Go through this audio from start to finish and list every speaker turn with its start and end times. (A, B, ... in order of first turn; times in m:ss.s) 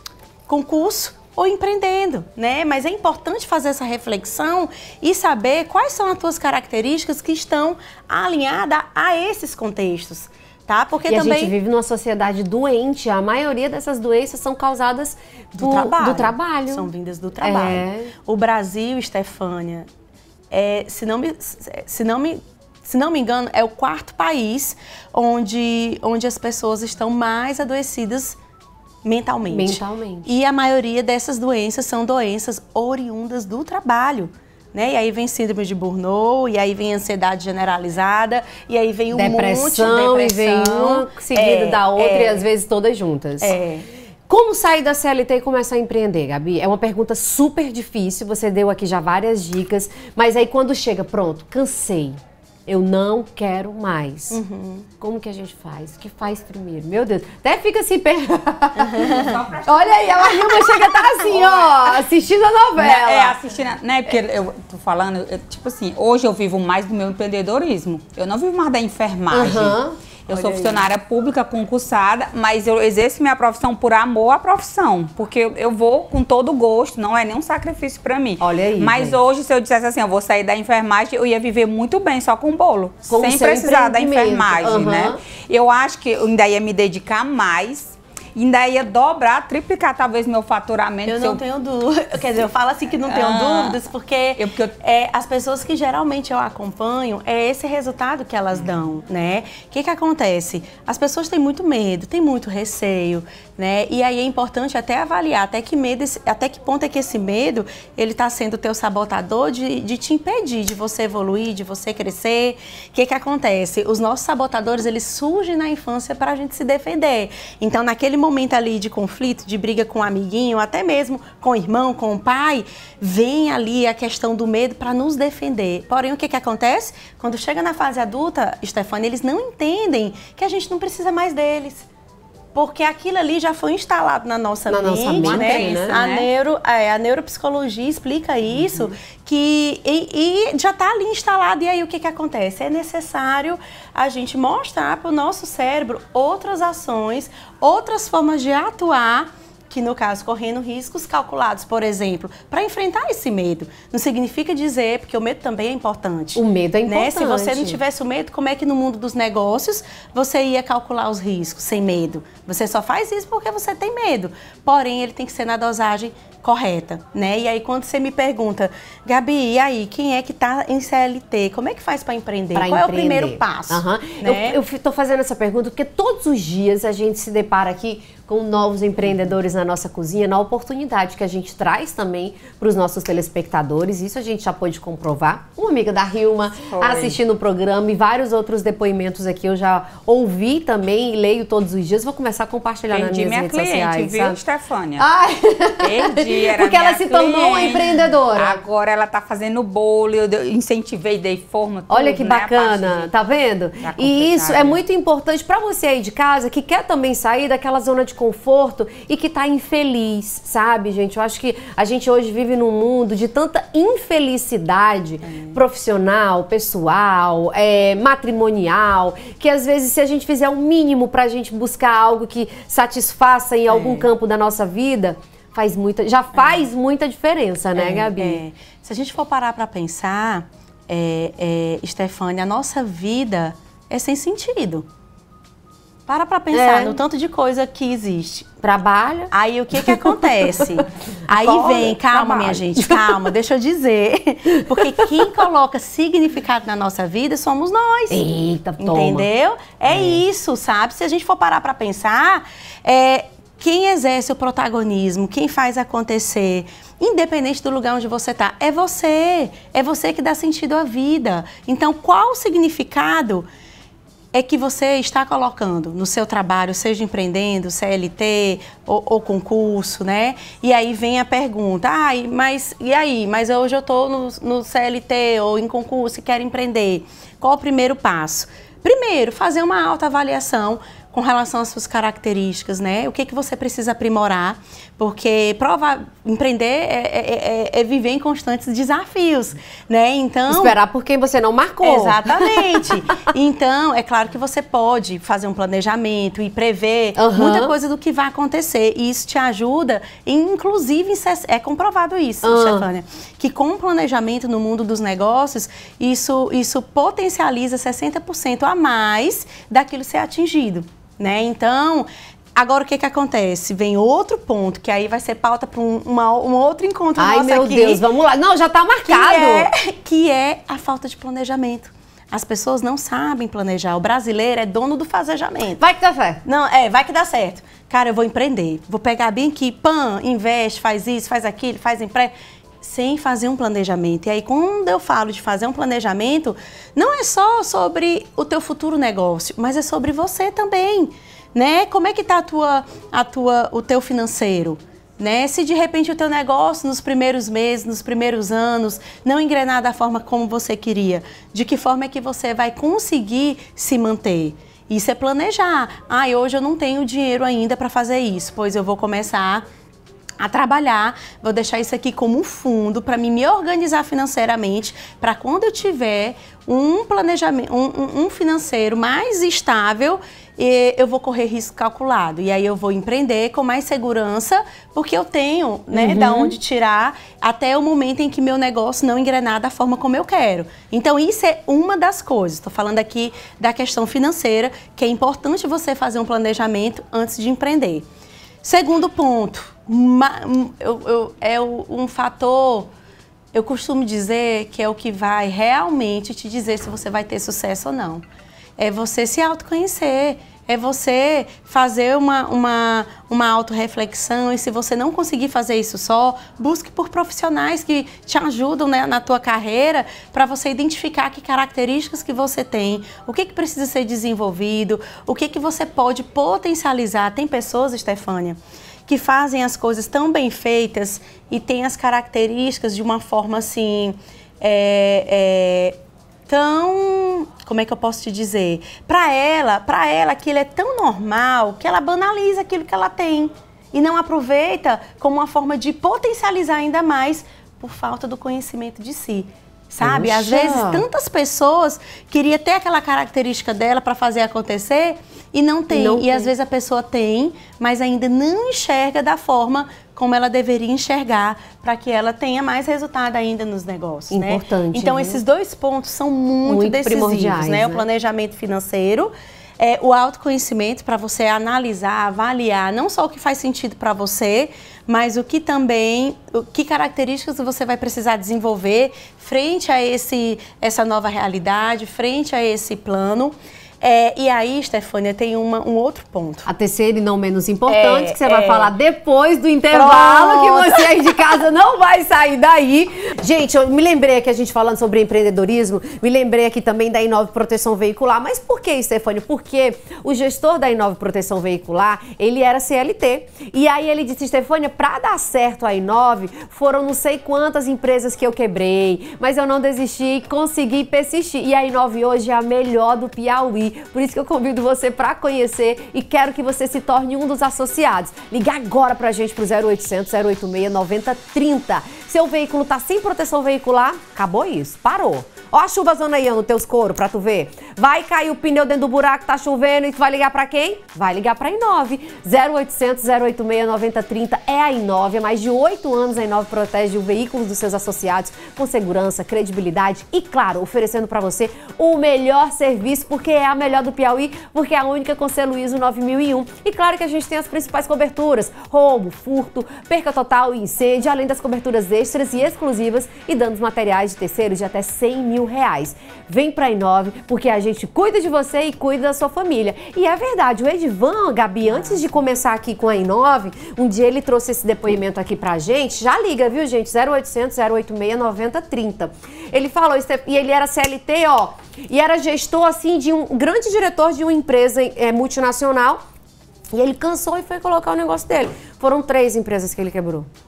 0:00.5-0:11.5 A
0:11.1-0:16.9 B
0:15.5-0:19.9 A
0:17.4-0:18.1 B
0:20.5-0:28.4 A
0:29.0-0:42.4 A
0:29.5-0:30.3 B
0:39.1-0:43.6 B
0:43.4-0:43.9 A
0:44.3-0:54.4 B
0:54.3-0:54.9 A
0:55.0-1:03.4 B
0:58.8-0:59.4 A
0:59.0-1:00.4 C
1:00.2-1:02.0 A
1:02.8-1:31.4 C
1:09.3-1:10.0 B
1:10.3-1:10.8 A
1:18.4-1:19.2 B
1:23.1-1:25.2 B
1:31.1-2:11.9 A
1:33.1-1:33.8 C
1:34.4-1:34.7 C
2:12.5-2:54.6 A
2:14.7-2:16.0 B
2:15.1-2:16.3 C
2:36.4-2:37.8 B
2:52.6-3:14.4 B
3:06.7-3:07.2 C
3:12.9-3:15.1 C
3:15.0-3:18.6 B
3:15.8-3:23.1 C
3:21.9-3:48.4 B
3:23.8-3:24.8 C
3:35.2-3:35.6 A
3:43.7-3:44.1 A
3:46.3-3:46.6 A
3:47.8-3:54.9 A
3:56.1-3:58.6 A
3:56.5-3:57.0 B
3:58.6-4:00.7 B
3:59.3-4:08.2 A
4:01.3-4:03.2 B
4:04.6-4:05.1 B
4:08.1-4:09.3 B
4:08.8-4:23.5 A
4:09.9-4:10.2 B
4:24.3-4:50.8 A
4:50.5-4:52.8 B
4:51.8-5:18.0 A
4:57.2-4:57.7 B
5:02.4-5:02.9 B
5:17.2-5:19.7 B
5:19.1-5:25.8 A
5:25.8-5:26.4 B
5:26.4-5:59.7 A
6:00.4-6:28.1 A
6:15.9-6:16.6 B
6:28.6-6:32.9 A
6:33.5-6:38.2 A
6:38.8-7:06.0 A
7:06.5-7:56.7 A
7:20.0-7:21.0 B
7:25.9-7:26.5 B
7:34.3-7:35.4 B
7:36.6-7:38.0 B
7:56.7-9:26.2 B
7:57.9-7:58.9 A
7:59.9-8:01.6 A
9:11.9-9:12.3 A
9:26.9-9:30.5 B